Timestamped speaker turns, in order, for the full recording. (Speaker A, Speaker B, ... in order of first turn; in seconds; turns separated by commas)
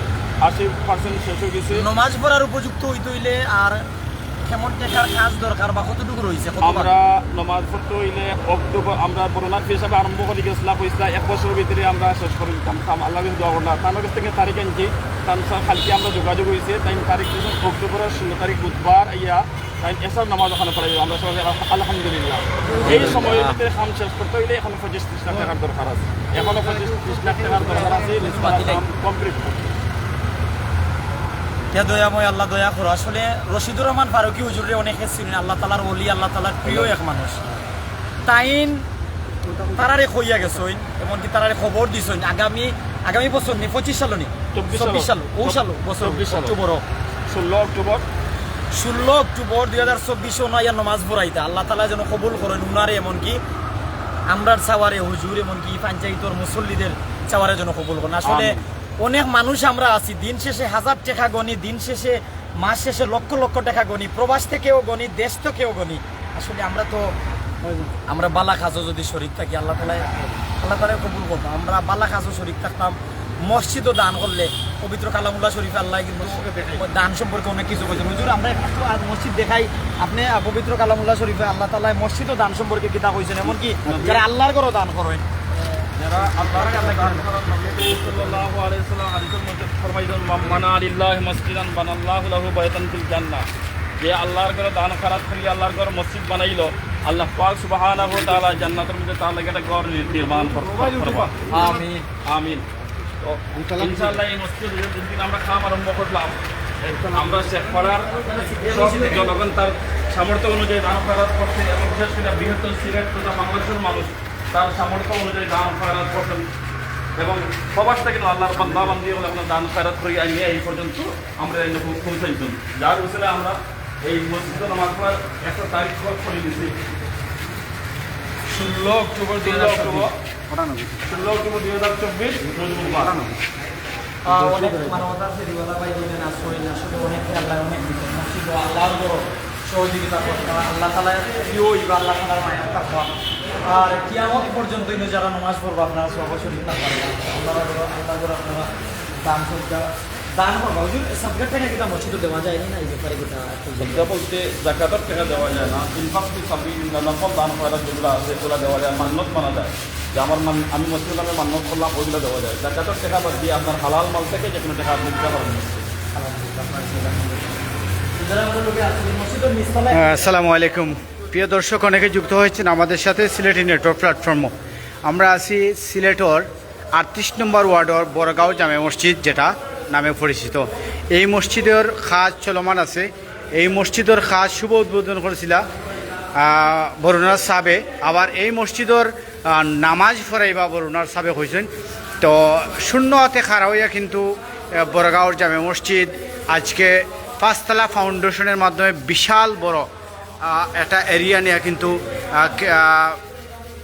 Speaker A: 0.4-1.9, Speaker B: 1.7-3.8, Speaker B: 4.4-6.9, Speaker A: 6.6-29.6, Speaker B: 22.8-23.4, Speaker B: 27.9-28.8, Speaker B: 31.7-37.4, Speaker A: 36.6-36.9, Speaker B: 38.2-38.8, Speaker B: 39.5-46.8, Speaker A: 44.5-46.5, Speaker A: 47.3-48.0, Speaker B: 48.7-53.4, Speaker B: 54.3-67.1, Speaker A: 58.2-58.6, Speaker B: 68.1-85.2, Speaker A: 83.8-84.2, Speaker A: 85.9-93.5, Speaker A: 94.0-101.3, Speaker A: 102.2-102.6, Speaker A: 103.2-116.5, Speaker B: 108.1-109.4, Speaker A: 117.2-126.7, Speaker A: 128.5-130.1, Speaker C: 129.4-130.8, Speaker A: 131.1-133.3, Speaker B: 134.2-143.1, Speaker B: 143.6-148.7, Speaker B: 149.2-154.1, Speaker A: 153.8-165.9, Speaker B: 166.1-167.6, Speaker B: 168.2-170.3, Speaker C: 169.9-174.5, Speaker C: 175.0-185.6, Speaker C: 186.4-191.7, Speaker C: 192.2-194.3, Speaker C: 194.8-199.9, Speaker C: 200.4-203.2